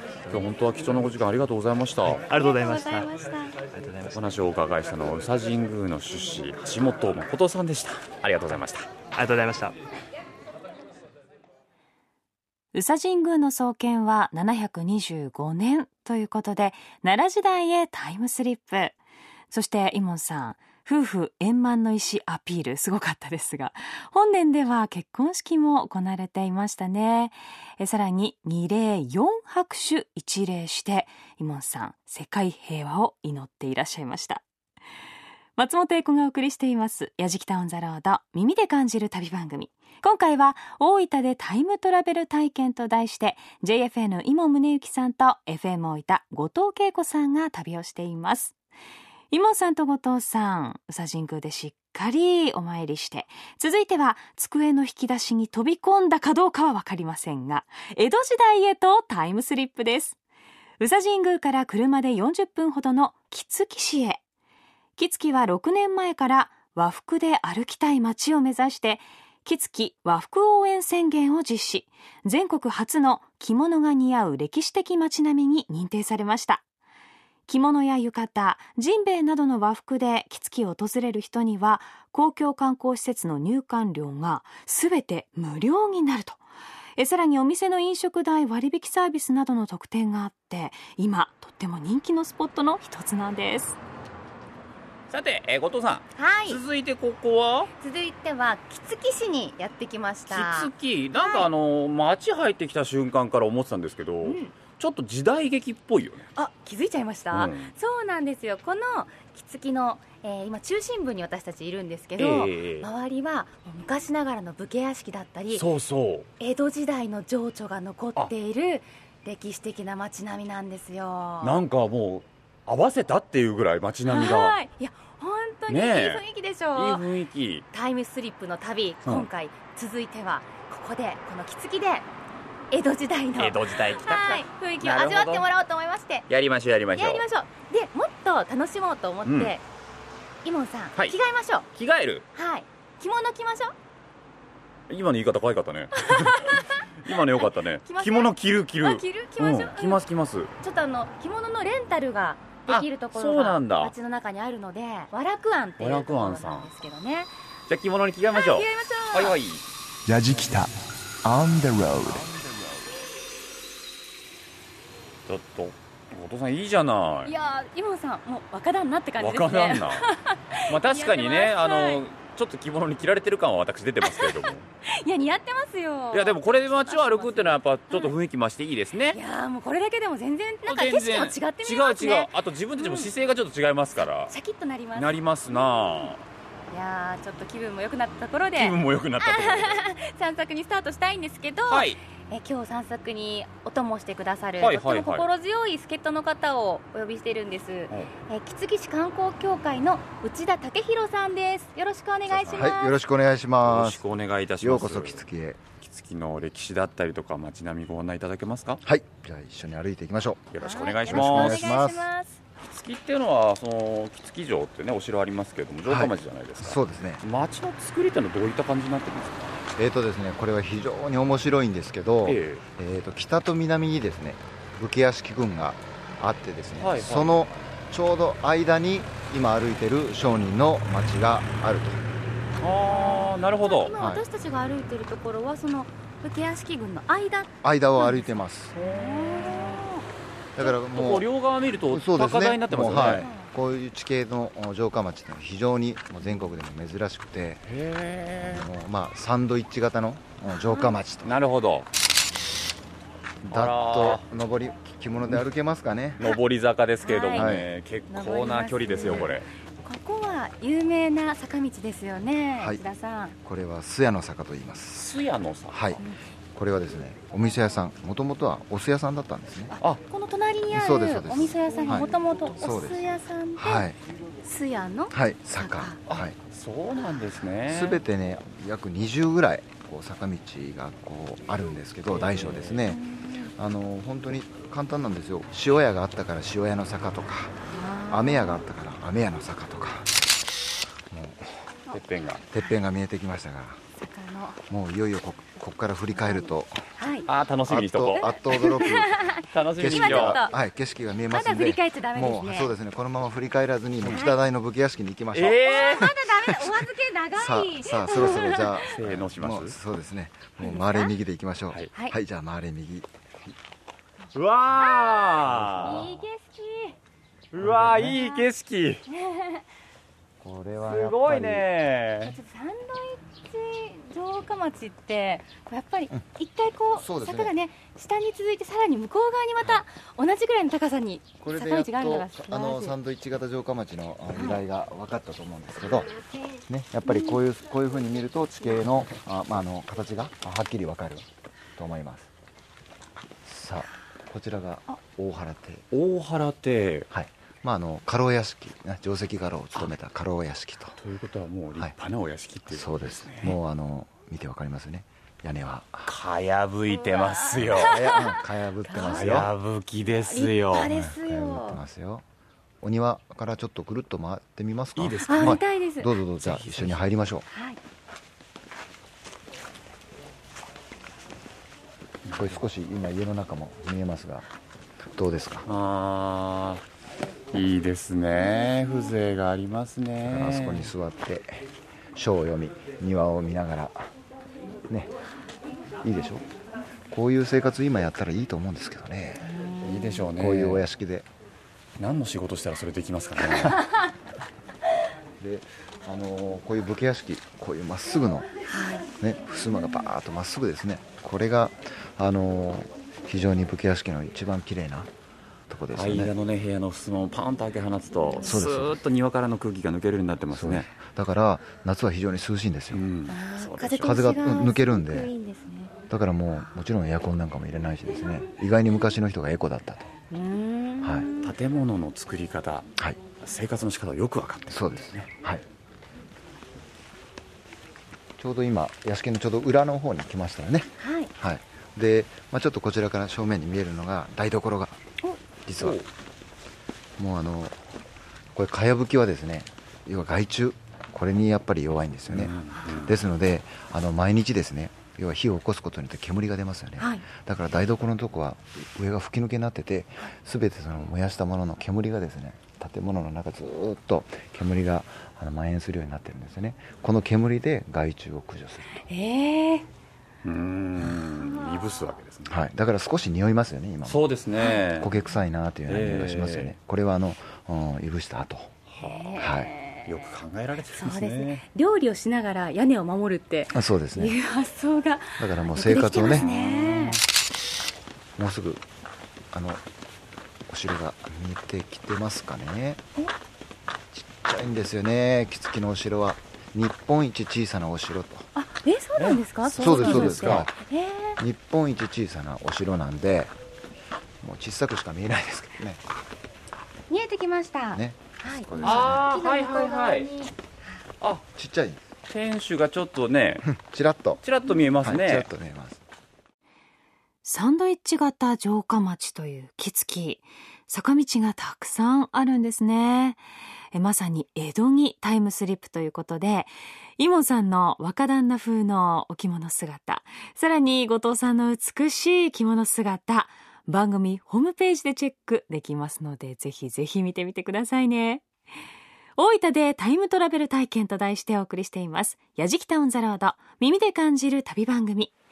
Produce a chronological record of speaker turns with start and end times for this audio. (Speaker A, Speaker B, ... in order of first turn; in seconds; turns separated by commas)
Speaker A: 0.3-2.2, Speaker B: 2.0-3.1, Speaker C: 2.3-3.6, Speaker B: 3.7-4.2, Speaker A: 4.1-8.9, Speaker B: 9.1-9.7, Speaker D: 12.7-18.9, Speaker D: 19.5-34.4, Speaker D: 35.6-48.5, Speaker D: 49.3-60.1, Speaker D: 60.8-64.2, Speaker D: 65.0-76.6, Speaker D: 77.5-86.4, Speaker D: 87.0-93.8, Speaker A: 95.1-97.7, Speaker C: 96.2-96.6, Speaker C: 97.8-101.5, Speaker A: 100.3-106.3, Speaker C: 104.2-104.5, Speaker C: 106.3-115.6, Speaker A: 107.3-107.7, Speaker A: 112.2-112.9, Speaker A: 115.5-116.3, Speaker C: 116.4-121.6, Speaker A: 121.4-124.6, Speaker C: 124.1-127.0, Speaker A: 125.7-126.2, Speaker A: 126.7-127.6, Speaker C: 127.7-132.1, Speaker A: 129.0-129.3, Speaker C: 132.7-136.2, Speaker A: 133.4-135.4, Speaker A: 136.3-137.2, Speaker C: 136.9-139.6, Speaker A: 139.2-139.5, Speaker C: 140.4-141.7, Speaker A: 141.7-142.2, Speaker C: 142.3-143.7, Speaker A: 144.9-150.5, Speaker C: 146.0-147.2, Speaker C: 147.8-150.0, Speaker C: 150.6-157.3, Speaker A: 152.7-153.9, Speaker A: 155.8-156.7, Speaker A: 157.7-159.6, Speaker C: 158.3-159.4, Speaker E: 160.1-162.2, Speaker A: 165.3-167.3, Speaker C: 167.2-172.0, Speaker A: 169.2-170.1, Speaker A: 170.7-174.7, Speaker C: 174.0-178.1, Speaker A: 176.1-179.2, Speaker C: 179.1-183.1, Speaker A: 180.6-184.3, Speaker C: 184.3-186.1, Speaker A: 184.9-186.2, Speaker C: 186.7-202.9, Speaker A: 188.6-189.9, Speaker A: 191.7-192.0, Speaker A: 194.6-195.3, Speaker A: 202.3-202.7, Speaker F: 202.5-204.0, Speaker A: 203.6-205.2, Speaker F: 204.6-205.6, Speaker A: 205.8-208.8, Speaker F: 208.8-210.4, Speaker A: 210.5-211.8, Speaker C: 210.6-212.4, Speaker F: 211.1-212.1, Speaker A: 212.7-219.6, Speaker F: 215.8-217.2, Speaker F: 219.8-232.0, Speaker A: 222.2-222.6, Speaker A: 226.8-227.3, Speaker A: 232.6-233.9, Speaker C: 232.9-240.0, Speaker F: 234.0-234.2, Speaker F: 237.6-238.7, Speaker A: 238.8-239.8, Speaker F: 240.6-241.3, Speaker A: 240.8-243.3, Speaker F: 241.9-247.8, Speaker C: 242.9-243.5, Speaker A: 247.7-248.7, Speaker F: 248.4-251.3, Speaker C: 250.5-250.9, Speaker A: 251.2-251.9, Speaker F: 253.4-256.2, Speaker A: 253.5-254.2, Speaker A: 256.2-259.5, Speaker C: 257.0-257.5, Speaker F: 257.3-257.7, Speaker C: 258.1-263.3, Speaker F: 262.6-262.8, Speaker F: 263.4-265.1, Speaker A: 264.9-266.0, Speaker F: 265.7-266.0, Speaker F: 266.5-269.8, Speaker C: 269.8-273.8, Speaker F: 270.7-273.0, Speaker F: 273.6-274.0, Speaker C: 274.4-276.0, Speaker F: 275.1-276.4, Speaker A: 276.1-278.0, Speaker F: 277.7-287.6, Speaker A: 282.1-282.8, Speaker C: 282.9-283.5, Speaker C: 287.7-288.6, Speaker F: 288.1-290.1, Speaker F: 291.1-291.5, Speaker A: 291.9-292.4, Speaker F: 292.5-293.8, Speaker C: 294.0-294.6, Speaker F: 294.7-296.8, Speaker C: 296.2-297.3, Speaker A: 297.3-298.3, Speaker F: 297.7-299.2, Speaker C: 298.1-300.5, Speaker A: 299.5-300.4, Speaker F: 299.8-305.8, Speaker C: 301.3-302.7, Speaker A: 304.0-304.3, Speaker C: 304.1-304.3, Speaker A: 305.3-306.2, Speaker C: 305.6-308.9, Speaker F: 307.3-313.1, Speaker A: 308.9-309.8, Speaker C: 310.6-311.1, Speaker A: 314.3-316.0, Speaker C: 314.7-316.9, Speaker F: 315.5-316.2, Speaker A: 317.5-319.0, Speaker F: 317.6-318.2, Speaker C: 318.1-318.4, Speaker C: 319.1-319.6, Speaker F: 320.4-321.7, Speaker A: 320.8-322.4, Speaker C: 322.2-332.9, Speaker F: 326.9-327.5, Speaker F: 331.4-336.1, Speaker C: 334.3-334.6, Speaker F: 336.7-342.3, Speaker C: 337.0-337.4, Speaker F: 343.4-345.8, Speaker A: 345.9-347.1, Speaker F: 347.1-351.0, Speaker A: 351.0-353.6, Speaker F: 352.7-356.1, Speaker A: 356.0-358.1, Speaker F: 357.8-359.5, Speaker C: 358.0-358.3, Speaker C: 358.9-359.4, Speaker A: 359.0-360.9, Speaker C: 360.3-361.8, Speaker F: 360.8-362.2, Speaker F: 362.8-367.4, Speaker A: 364.9-365.6, Speaker C: 365.3-366.1, Speaker A: 366.4-367.0, Speaker C: 367.5-367.8, Speaker A: 372.2-372.6, Speaker F: 372.3-374.5, Speaker F: 375.1-375.7, Speaker A: 375.7-376.8, Speaker A: 377.5-380.9, Speaker F: 380.2-384.1, Speaker F: 386.0-386.4, Speaker F: 387.1-389.5, Speaker C: 389.4-390.3, Speaker A: 389.8-390.8, Speaker F: 390.3-391.3, Speaker A: 392.0-393.8, Speaker F: 395.4-398.5, Speaker C: 398.7-399.1, Speaker F: 399.2-405.1, Speaker F: 405.7-406.3, Speaker A: 405.9-410.9, Speaker F: 408.4-409.0, Speaker F: 410.5-413.0, Speaker A: 412.9-414.1, Speaker C: 413.3-415.9, Speaker F: 414.0-415.3, Speaker F: 416.1-420.1, Speaker C: 420.3-421.5, Speaker F: 421.0-421.3, Speaker A: 421.4-422.9, Speaker A: 423.4-425.2, Speaker F: 424.7-425.6, Speaker F: 428.4-435.0, Speaker C: 431.0-431.3, Speaker F: 435.6-436.0, Speaker A: 435.8-436.1, Speaker F: 437.2-437.8, Speaker F: 438.5-459.0, Speaker A: 442.3-443.1, Speaker C: 442.8-443.1, Speaker C: 447.0-447.2, Speaker C: 459.0-459.9, Speaker A: 460.4-462.6, Speaker C: 461.4-461.8, Speaker F: 462.5-468.7, Speaker A: 464.1-465.1, Speaker A: 465.9-466.7, Speaker A: 468.9-469.5, Speaker C: 469.0-470.1, Speaker F: 469.4-469.7, Speaker A: 470.1-471.6, Speaker C: 471.0-477.2, Speaker F: 473.7-474.4, Speaker F: 475.4-476.5, Speaker A: 476.1-477.2, Speaker F: 478.4-478.8, Speaker F: 479.5-479.8, Speaker F: 480.7-483.0, Speaker F: 484.1-488.5, Speaker C: 488.6-491.4, Speaker A: 489.2-490.6, Speaker F: 489.7-490.7, Speaker F: 491.4-493.5, Speaker F: 494.4-496.0, Speaker C: 497.1-501.0, Speaker F: 497.9-499.3, Speaker A: 498.8-500.3, Speaker F: 501.5-502.0, Speaker A: 502.3-503.7, Speaker F: 503.6-504.4, Speaker A: 504.4-505.5, Speaker F: 505.0-506.0, Speaker D: 507.4-513.4, Speaker D: 513.9-528.4, Speaker D: 529.4-535.3